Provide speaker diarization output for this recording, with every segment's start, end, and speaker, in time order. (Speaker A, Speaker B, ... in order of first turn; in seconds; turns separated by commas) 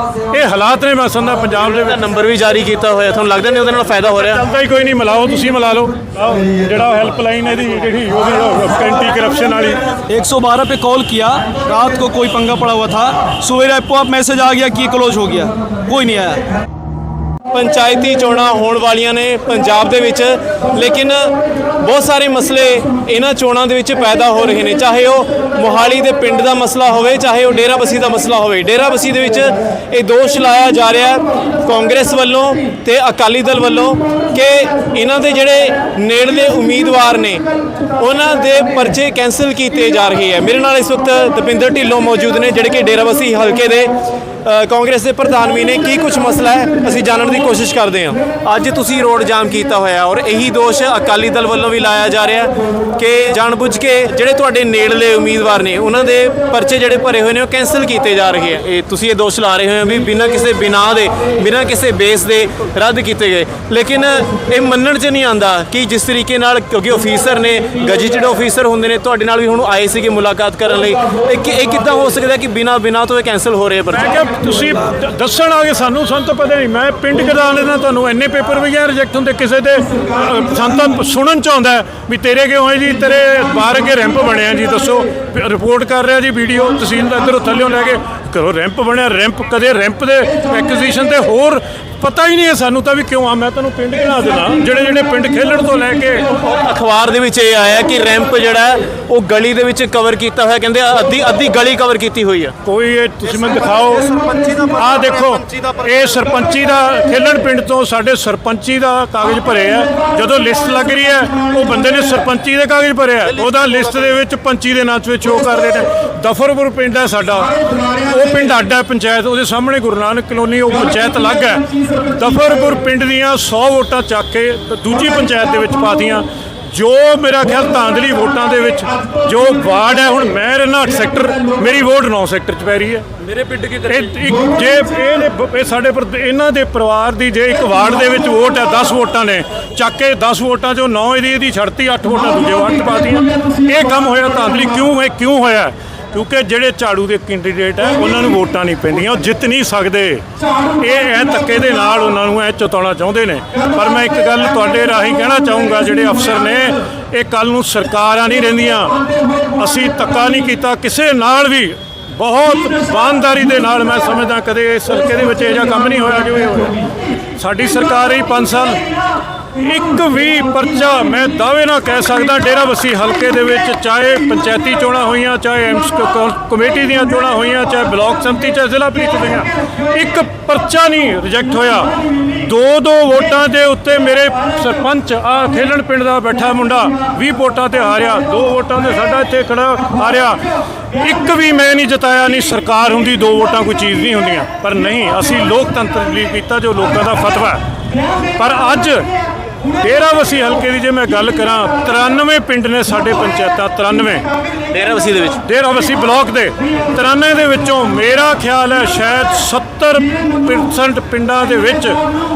Speaker A: 0.3-2.0, Speaker B: 1.6-4.4, Speaker A: 4.0-9.8, Speaker C: 10.1-16.5, Speaker B: 17.5-37.4, Speaker B: 38.0-43.9, Speaker B: 44.5-74.2, Speaker A: 73.9-96.3, Speaker B: 96.4-102.5, Speaker A: 102.7-104.1, Speaker B: 103.5-106.0, Speaker A: 104.8-133.1, Speaker B: 113.4-113.6, Speaker B: 133.3-133.9, Speaker A: 133.9-150.2, Speaker A: 150.8-159.0, Speaker A: 159.6-166.8, Speaker A: 167.4-168.8, Speaker A: 169.6-190.4, Speaker A: 191.0-197.6, Speaker A: 198.3-199.1, Speaker A: 199.8-204.2, Speaker B: 204.7-205.4, Speaker A: 205.4-212.0